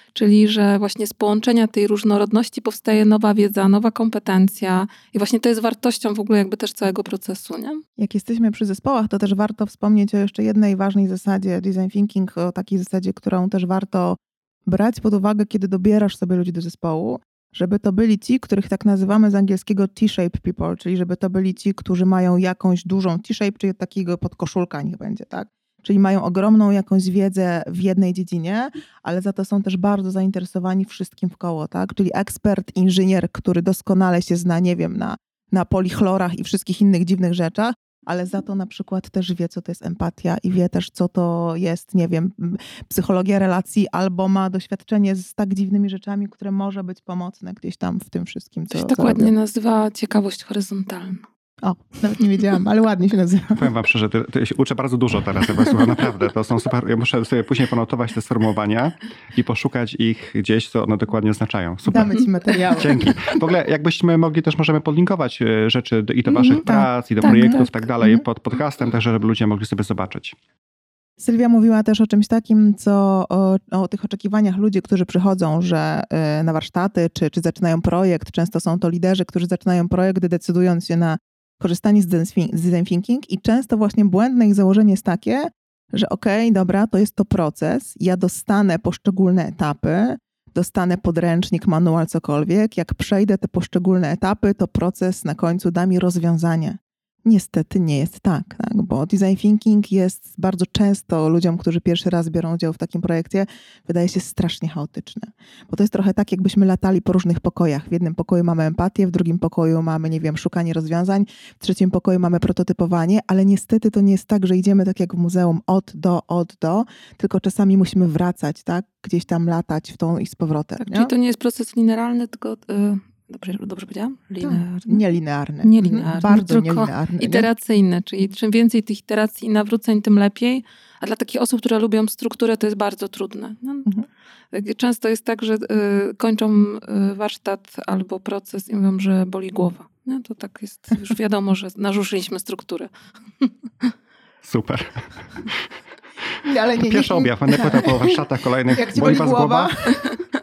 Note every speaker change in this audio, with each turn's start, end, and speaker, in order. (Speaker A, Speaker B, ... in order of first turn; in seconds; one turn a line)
Speaker A: 0.1-7.8
Speaker B: 8.0-49.3
Speaker A: 48.7-51.2
Speaker B: 51.6-53.6
Speaker C: 53.5-70.3
Speaker B: 61.9-63.0
Speaker A: 66.3-66.6
Speaker B: 66.6-68.2
Speaker A: 67.3-67.6
Speaker B: 71.2-121.1
Speaker A: 120.8-125.0
Speaker B: 124.4-127.5
Speaker A: 125.6-133.9
Speaker A: 134.5-142.9
Speaker A: 143.4-143.9
Speaker C: 144.4-145.7
Speaker B: 146.4-150.1
Speaker C: 146.8-150.1